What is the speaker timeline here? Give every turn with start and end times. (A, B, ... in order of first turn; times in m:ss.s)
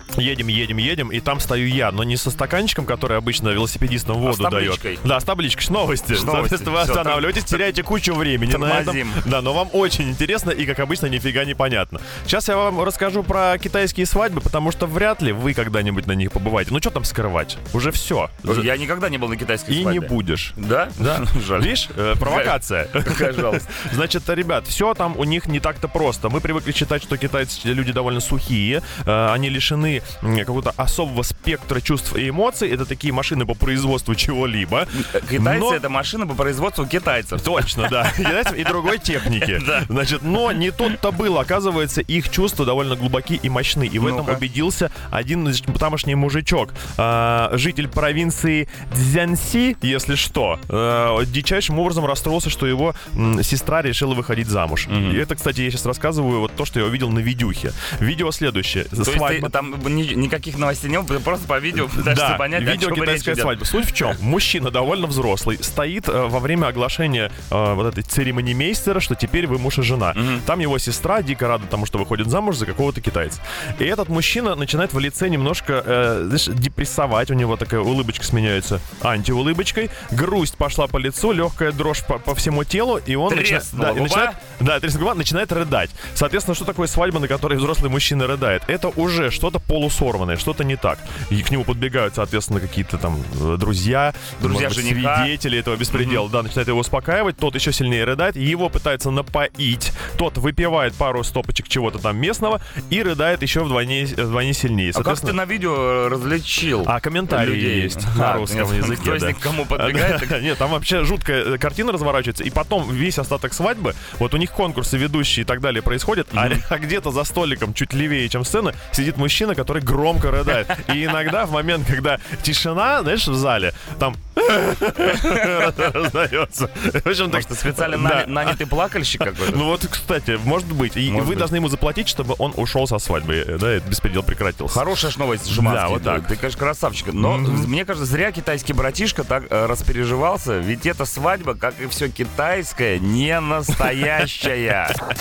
0:00.2-0:18.7 A
0:04.2-0:05.0 B
0:06.1-0:07.5 B
0:08.5-0:09.2 B
0:18.4-0:23.8 B
0:19.7-0:35.8 A
0:35.0-0:38.4 B
0:37.4-0:59.5 A
0:39.3-0:39.9 B
0:44.0-0:44.4 B
0:54.9-0:55.2 B
0:59.0-1:03.9 B
1:02.0-1:45.4 A
1:10.2-1:10.4 B
1:23.3-1:24.4 B
1:34.4-1:35.3 B
1:35.9-1:36.2 B
1:44.9-1:50.4 B
1:46.8-2:14.8 A
1:56.4-1:56.6 B
2:05.1-2:05.5 B
2:07.3-2:09.6 B
2:11.1-2:11.5 B
2:14.7-2:25.0 B
2:15.5-2:16.3 A
2:17.2-2:17.7 A